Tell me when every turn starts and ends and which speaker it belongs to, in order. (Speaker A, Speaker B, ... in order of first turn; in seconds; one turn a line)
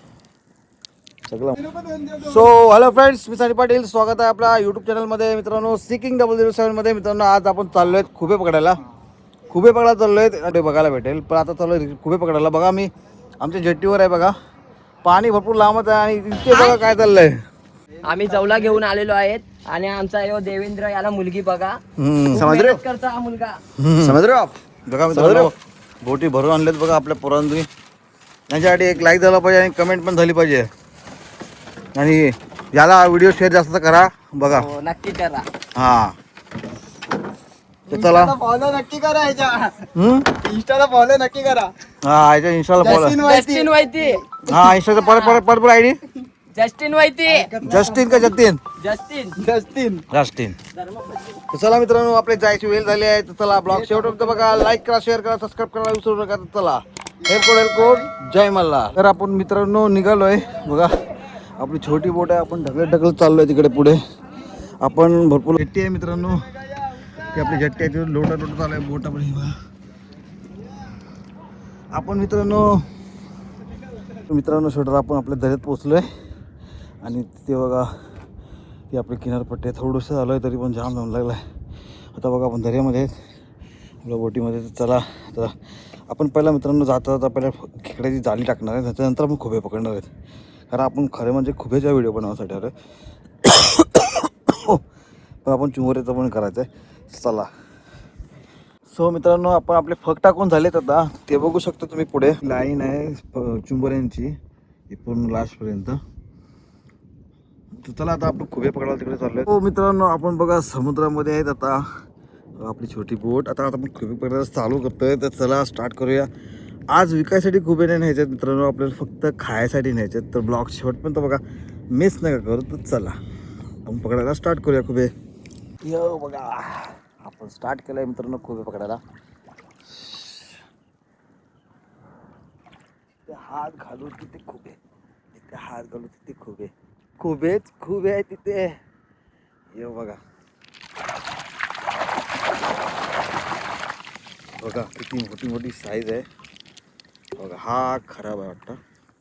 Speaker A: 1.3-1.6
Speaker A: 2.2-8.8
Speaker A: 9.5-14.3
Speaker A: 15.1-17.4
Speaker B: 16.5-16.8
Speaker B: 18.0-21.8
Speaker A: 22.0-22.4
Speaker C: 22.3-22.8
Speaker B: 22.3-23.6
Speaker A: 23.8-24.2
Speaker C: 24.0-24.6
Speaker A: 24.9-27.7
Speaker C: 25.1-25.5
Speaker A: 28.5-30.7
Speaker A: 31.9-34.7
Speaker B: 34.5-35.5
Speaker A: 35.8-36.1
Speaker A: 37.9-38.4
Speaker C: 37.9-41.7
Speaker A: 40.0-40.3
Speaker A: 42.0-43.2
Speaker C: 42.8-44.6
Speaker B: 43.2-44.2
Speaker A: 44.4-46.0
Speaker B: 45.0-45.4
Speaker B: 46.5-47.5
Speaker C: 47.4-48.4
Speaker A: 47.6-48.6
Speaker B: 48.8-49.4
Speaker C: 49.4-50.1
Speaker A: 50.1-50.6
Speaker A: 51.5-61.1
Speaker A: 61.6-64.0
Speaker A: 64.8-66.5
Speaker A: 67.1-69.5
Speaker A: 71.9-72.8
Speaker A: 74.2-76.1
Speaker A: 77.0-77.9
Speaker A: 78.9-81.4
Speaker A: 82.1-83.1
Speaker A: 84.0-85.6
Speaker A: 86.1-90.1
Speaker A: 90.7-92.7
Speaker A: 93.4-94.8
Speaker A: 95.5-97.5
Speaker A: 98.9-104.3
Speaker A: 104.9-106.0
Speaker A: 107.7-111.8
Speaker A: 112.6-116.3
Speaker A: 116.9-121.4
Speaker A: 121.9-123.2
Speaker A: 123.8-125.1
Speaker A: 125.8-129.0
Speaker A: 129.9-130.6
Speaker A: 133.3-134.8
Speaker A: 135.3-138.7
Speaker A: 139.7-140.2
Speaker A: 144.6-146.3
Speaker A: 147.4-148.8